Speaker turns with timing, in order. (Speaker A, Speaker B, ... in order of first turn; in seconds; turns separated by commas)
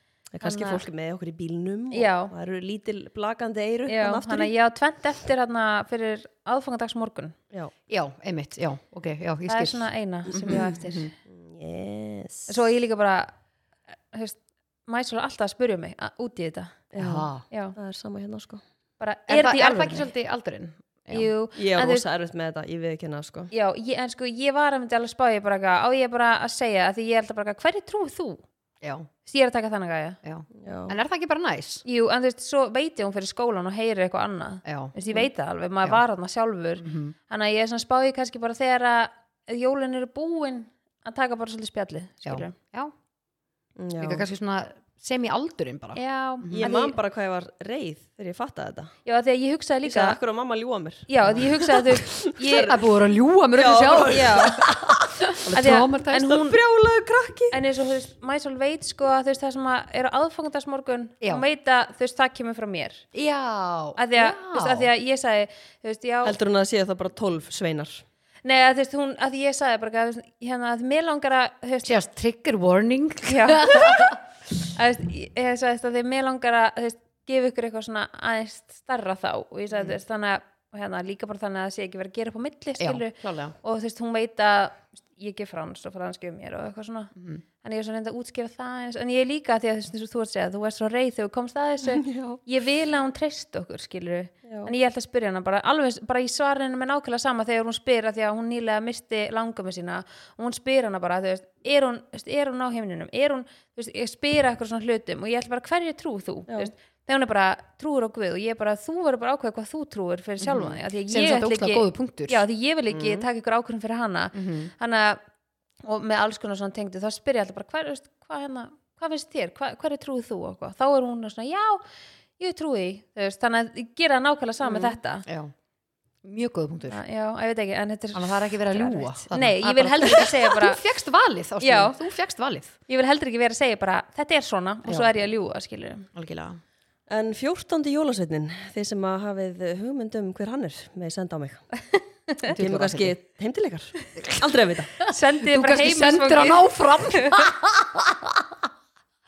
Speaker A: 0.3-4.5, Speaker B: 0.4-0.8, Speaker B: 1.9-2.3, Speaker B: 3.9-7.3, Speaker C: 7.9-11.1, Speaker B: 9.5-11.1, Speaker A: 11.3-12.5, Speaker B: 12.5-13.3, Speaker B: 14.1-16.9, Speaker A: 16.9-18.6, Speaker C: 17.0-17.4, Speaker B: 17.5-17.7, Speaker B: 19.0-20.1, Speaker C: 19.3-21.3, Speaker B: 21.1-22.0, Speaker A: 21.6-23.5, Speaker B: 23.5-28.4, Speaker C: 28.8-29.1, Speaker B: 29.2-30.2, Speaker C: 30.2-31.8, Speaker A: 30.6-30.9, Speaker B: 31.8-42.5, Speaker C: 34.6-35.0, Speaker C: 36.8-37.1, Speaker C: 42.2-42.9, Speaker A: 43.8-44.2, Speaker C: 44.0-46.7, Speaker B: 45.9-47.0, Speaker A: 46.5-48.9, Speaker B: 49.0-50.2, Speaker A: 49.8-52.8, Speaker B: 51.1-52.7, Speaker C: 52.6-56.4, Speaker A: 53.5-54.8, Speaker B: 54.1-54.6, Speaker B: 55.5-56.5, Speaker A: 56.1-57.6, Speaker B: 57.5-63.0, Speaker C: 61.2-61.5, Speaker C: 63.1-64.9, Speaker B: 64.0-66.4, Speaker A: 66.2-68.0, Speaker B: 68.4-71.9, Speaker C: 71.8-74.2, Speaker B: 73.2-74.2, Speaker B: 74.7-115.2, Speaker C: 82.8-83.5, Speaker C: 87.1-87.4, Speaker A: 92.0-92.4, Speaker A: 94.4-94.7, Speaker C: 110.4-112.4, Speaker A: 112.9-113.3, Speaker C: 114.3-114.7, Speaker B: 115.8-121.8, Speaker B: 122.4-125.2, Speaker C: 124.8-125.5, Speaker C: 126.2-127.0, Speaker B: 126.8-130.8, Speaker C: 128.1-132.8, Speaker B: 131.6-131.9, Speaker B: 132.9-136.1, Speaker C: 134.8-135.1, Speaker C: 136.1-136.6, Speaker A: 137.1-141.8, Speaker A: 142.4-145.0, Speaker C: 142.5-143.1, Speaker C: 145.0-148.4, Speaker B: 145.1-147.4